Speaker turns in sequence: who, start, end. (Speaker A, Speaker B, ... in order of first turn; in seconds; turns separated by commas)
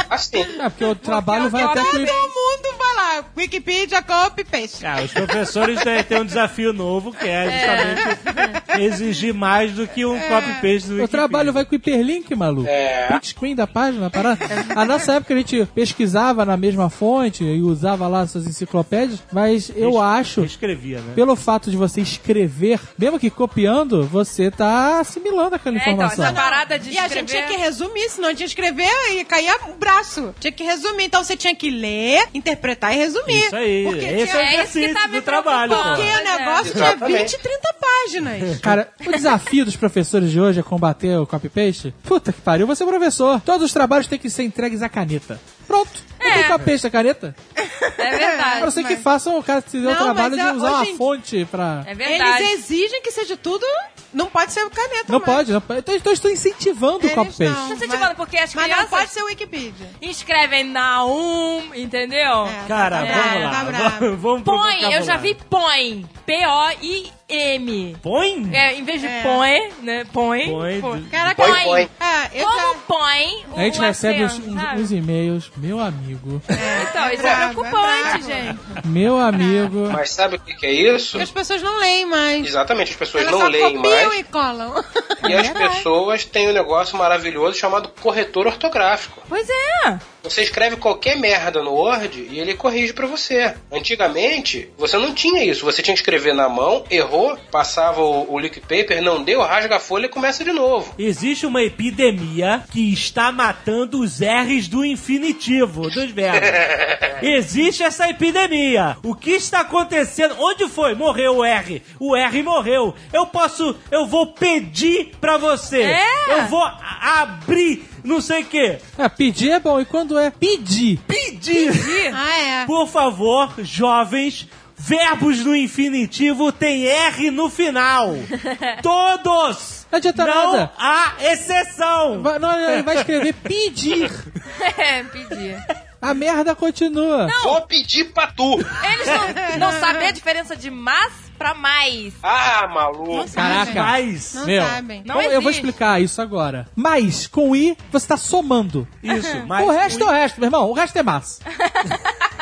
Speaker A: 0.1-0.6, Speaker B: 0.6-2.1, Speaker C: 1.0-2.3, Speaker D: 1.5-5.8, Speaker E: 4.8-11.6, Speaker C: 7.5-8.6, Speaker D: 10.2-10.7, Speaker B: 11.0-20.5, Speaker A: 12.6-13.2, Speaker E: 19.8-21.2, Speaker B: 21.1-26.4, Speaker C: 25.7-27.6, Speaker D: 26.2-34.5, Speaker E: 33.3-36.2, Speaker C: 34.2-36.9, Speaker D: 35.6-38.8, Speaker A: 36.6-37.4, Speaker B: 38.6-47.4, Speaker C: 46.2-46.7, Speaker D: 47.6-49.0, Speaker C: 48.0-48.8, Speaker B: 48.6-51.9, Speaker D: 49.8-51.1, Speaker C: 51.8-52.6, Speaker D: 52.0-55.5, Speaker B: 55.1-57.6, Speaker D: 57.0-60.0, Speaker C: 57.6-59.1, Speaker C: 60.0-63.5, Speaker D: 62.4-64.1, Speaker E: 62.6-65.3, Speaker C: 64.4-74.9, Speaker E: 68.0-68.6, Speaker D: 69.0-69.4, Speaker E: 70.4-71.4, Speaker D: 71.1-72.8, Speaker A: 71.4-71.9, Speaker B: 73.5-76.5, Speaker D: 76.5-78.5, Speaker C: 76.7-78.8, Speaker B: 78.8-80.0, Speaker D: 79.4-79.7, Speaker A: 79.9-81.3, Speaker D: 81.2-82.5, Speaker A: 82.4-84.2, Speaker D: 83.2-85.6, Speaker A: 85.2-89.2, Speaker C: 85.3-85.8, Speaker C: 89.3-90.0, Speaker A: 90.2-101.0, Speaker E: 101.0-118.8, Speaker A: 106.4-107.2, Speaker C: 115.8-116.5, Speaker B: 119.0-121.0, Speaker E: 121.1-122.1, Speaker C: 121.5-122.2, Speaker D: 122.1-122.7, Speaker E: 122.7-133.3, Speaker B: 129.9-130.7, Speaker B: 132.1-134.2, Speaker C: 134.5-135.6, Speaker B: 136.0-137.3, Speaker C: 137.2-137.6, Speaker A: 137.4-138.7, Speaker C: 138.8-142.2, Speaker E: 139.1-139.5, Speaker D: 139.2-140.1, Speaker A: 142.2-143.4, Speaker D: 143.1-145.1, Speaker B: 143.3-148.9, Speaker E: 143.5-144.5, Speaker C: 145.0-145.8, Speaker E: 149.0-150.2, Speaker B: 149.5-151.4, Speaker C: 151.5-152.3